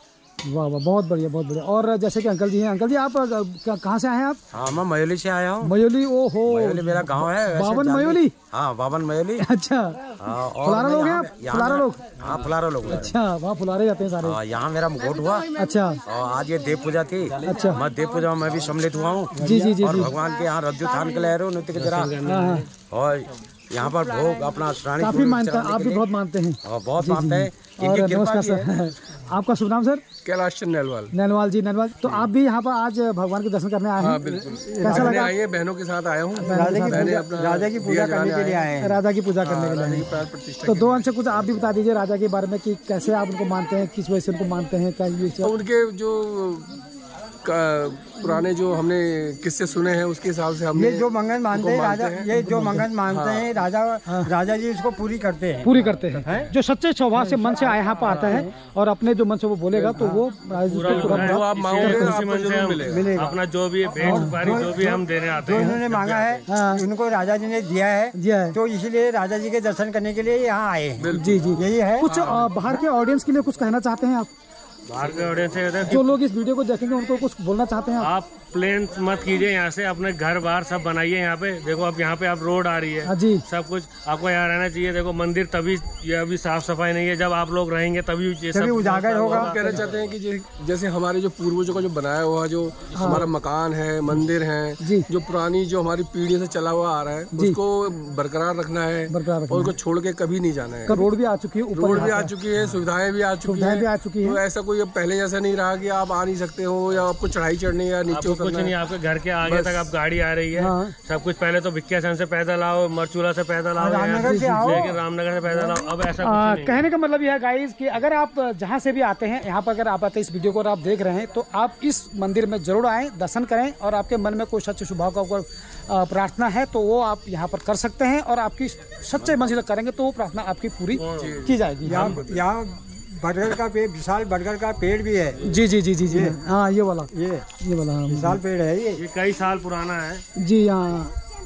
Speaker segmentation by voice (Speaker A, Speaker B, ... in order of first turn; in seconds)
Speaker A: 0.4-4.4, 5.6-8.3, 9.4-12.1, 12.8-14.4, 15.6-16.0, 17.4-17.9, 19.4-20.2, 22.2-22.7, 24.9-30.1, 31.1-35.3, 36.4-37.2, 38.8-45.6, 52.3-52.9, 54.1-54.3, 55.6-62.2, 64.0-64.7, 65.5-65.8, 66.5-66.8, 68.1-68.6, 71.1-74.3, 75.9-78.1, 83.0-83.4, 92.9-93.3, 94.8-95.1, 99.1-99.7, 100.8-102.4, 103.4-104.4, 110.5-110.9, 114.2-114.8, 116.2-132.1, 135.4-138.4, 140.4-141.1
Speaker B: 4.5-5.8, 6.5-9.5, 10.2-13.1, 14.2-15.5, 16.1-22.1, 22.8-26.1, 26.6-28.7
Speaker C: 19.3-20.1, 34.6-35.3, 36.4-39.0, 50.7-56.5, 57.1-58.4, 62.9-72.1, 88.5-89.6, 113.8-115.0, 131.8-135.5, 136.1-136.4, 137.1-137.4, 138.1-139.0
Speaker D: 21.7-22.7, 60.7-66.5, 74.9-76.0, 78.0-90.0, 108.1-116.9, 131.0-131.3, 139.0-140.2
Speaker E: 30.2-31.1, 34.0-38.7, 39.5-41.0, 45.4-46.7, 47.4-52.2, 53.1-53.5, 60.9-63.1, 71.0-71.5, 72.0-72.5, 89.2-101.0, 101.7-108.8, 109.5-109.9, 131.2-132.4